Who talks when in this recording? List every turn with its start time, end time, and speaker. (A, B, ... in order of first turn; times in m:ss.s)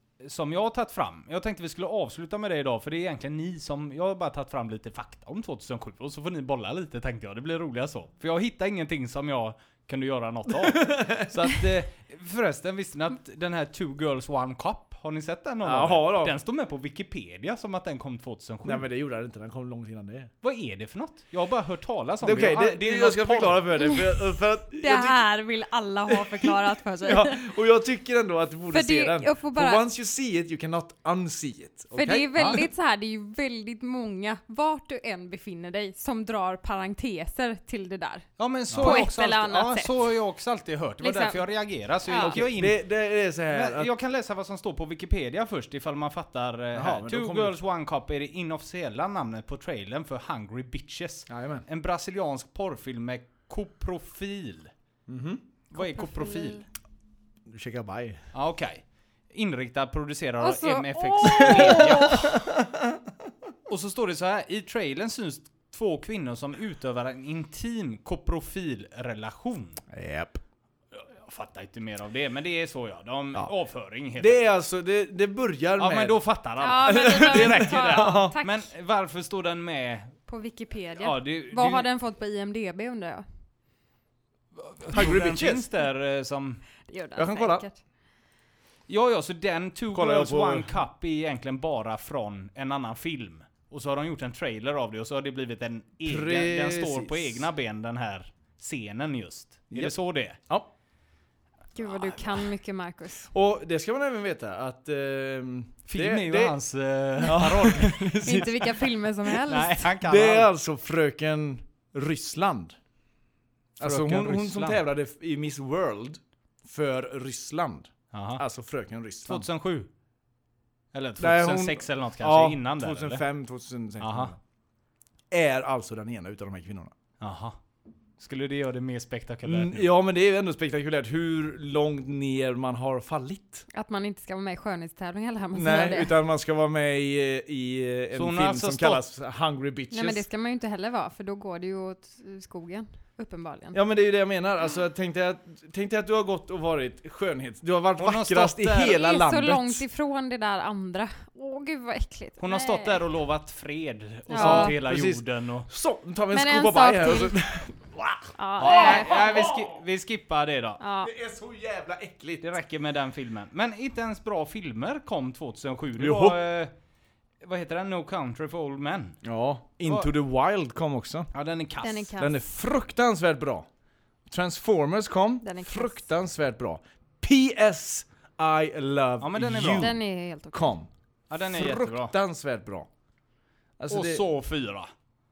0:00.2-0:18.8 A
0:10.6-0:11.8 B
0:15.6-0:16.4 B
0:18.6-0:20.3 B
0:20.4-0:24.0 A
0:22.2-0:25.2 B
0:24.7-0:27.4 C
0:26.1-0:32.6 B
0:28.7-0:29.8 C
0:31.9-0:39.9 C
0:32.4-0:32.6 A
0:38.4-0:42.8 A
0:38.7-0:39.0 B
0:41.0-0:41.5 C
0:42.0-0:42.4 C
0:42.1-0:43.9 B
0:43.5-0:54.7 A
0:46.8-0:47.6 B
0:51.3-0:51.6 B
0:55.1-0:55.4 B
0:55.7-0:56.6 A
0:55.7-0:56.6 C
0:57.5-0:58.2 B
0:58.3-1:02.4 A
1:00.4-1:02.3 C
1:01.4-1:03.0 B
1:03.7-1:09.8 A
1:09.9-1:10.4 B
1:10.9-1:14.4 A
1:14.2-1:16.2 B
1:15.8-1:20.2 A
1:16.6-1:18.7 C
1:16.8-1:18.4 B
1:20.3-1:23.2 C
1:21.0-1:21.9 A
1:24.6-1:26.6 A
1:24.9-1:25.7 B
1:26.9-1:27.8 C
1:27.2-1:27.6 B
1:28.9-1:40.4 A
1:29.9-1:30.7 B
1:36.0-1:37.5 B
1:41.8-1:43.3 C
1:43.3-1:46.6 B
1:45.9-1:48.1 A
1:47.2-1:48.8 B
1:48.2-1:49.9 C
1:49.5-1:50.5 A
1:50.0-1:52.8 B
1:53.8-1:54.8 A
1:53.8-1:59.5 B
1:58.1-1:58.4 A
1:59.3-1:59.9 A
2:00.9-2:03.2 A
2:01.2-2:04.4 B
2:04.0-2:04.4 A
2:05.3-2:06.9 B
2:07.2-2:07.6 A
2:08.2-2:09.9 A
2:09.4-2:13.7 B
2:13.7-2:16.2 C
2:15.5-2:20.2 B
2:18.1-2:19.0 A
2:19.9-2:23.8 C
2:23.7-2:29.8 B
2:28.0-2:29.0 A
2:28.9-2:33.0 C
2:32.4-2:35.7 A
2:34.3-2:34.8 C
2:34.4-2:39.8 B
2:36.3-2:37.4 C
2:38.4-2:39.2 C
2:38.6-2:40.8 A
2:40.8-2:41.1 C
2:41.0-2:42.4 B
2:42.4-2:46.7 A
2:46.0-2:46.4 B
2:47.4-2:49.2 A
2:49.2-2:51.3 B
2:49.8-2:50.1 A
2:51.3-2:52.1 A
2:51.8-2:52.4 C
2:52.2-2:53.7 B
2:54.3-3:00.0 B
2:55.4-2:56.0 C
2:59.2-2:59.9 A
2:59.8-3:00.8 C
3:00.5-3:00.9 B
3:01.3-3:02.2 A
3:01.4-3:02.9 B
3:03.8-3:04.2 B
3:03.9-3:04.9 A